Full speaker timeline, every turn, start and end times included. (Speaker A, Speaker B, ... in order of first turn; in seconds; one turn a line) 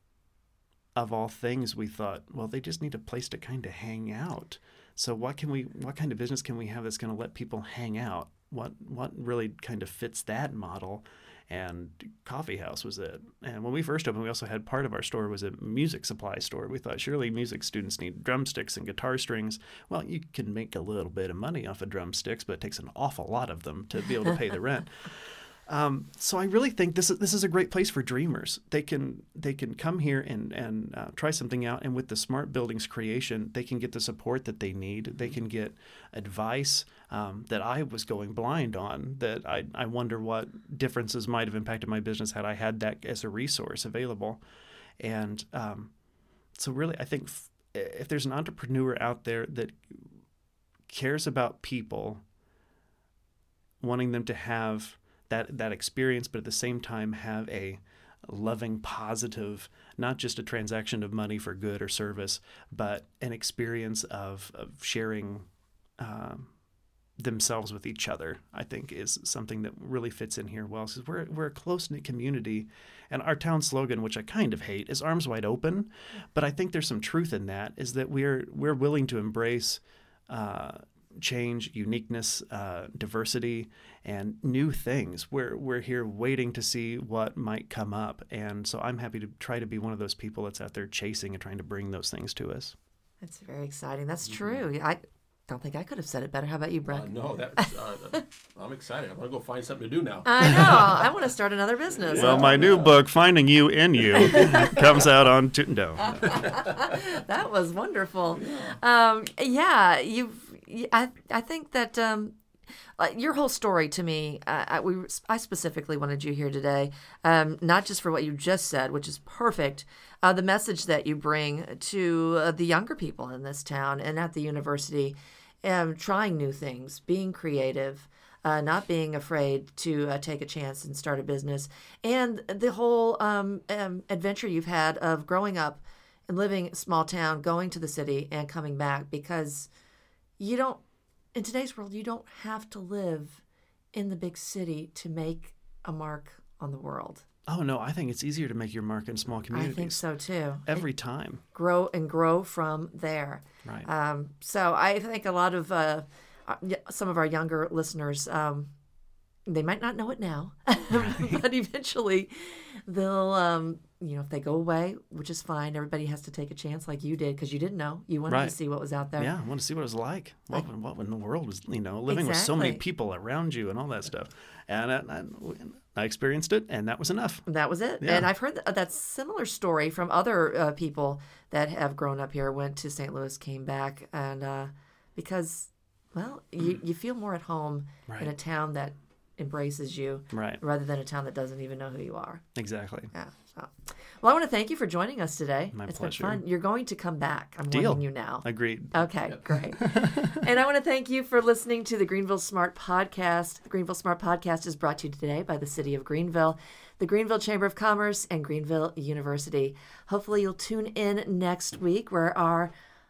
Speaker A: 0.9-44.4
Speaker A: 45.0-45.9
Speaker A: 46.5-50.1
Speaker A: 50.9-52.2
Speaker A: 53.8-65.5
Speaker A: 66.0-66.5
Speaker A: 67.2-92.8
Speaker B: 93.2-98.2
Speaker C: 94.3-94.6
Speaker C: 96.9-101.1
Speaker B: 100.3-102.8
Speaker C: 102.0-102.9
Speaker A: 102.2-106.4
Speaker B: 104.2-104.8
Speaker B: 106.0-112.4
Speaker C: 106.2-106.7
Speaker C: 108.4-108.7
Speaker B: 113.0-139.7
Speaker B: 140.4-140.8
Speaker B: 141.3-143.4
Speaker B: 143.9-147.2
Speaker A: 147.5-150.0
Speaker B: 149.5-150.8
Speaker A: 150.7-151.4
Speaker B: 151.5-158.7
Speaker B: 159.5-169.3
Speaker A: 160.9-161.4
Speaker A: 168.3-168.6
Speaker A: 169.2-177.5
Speaker B: 172.1-172.8
Speaker B: 177.5-192.4
Speaker A: 178.0-178.3
Speaker A: 190.3-190.6
Speaker A: 192.6-193.1
Speaker B: 193.1-212.7
Speaker A: 195.7-196.4
Speaker A: 197.7-200.4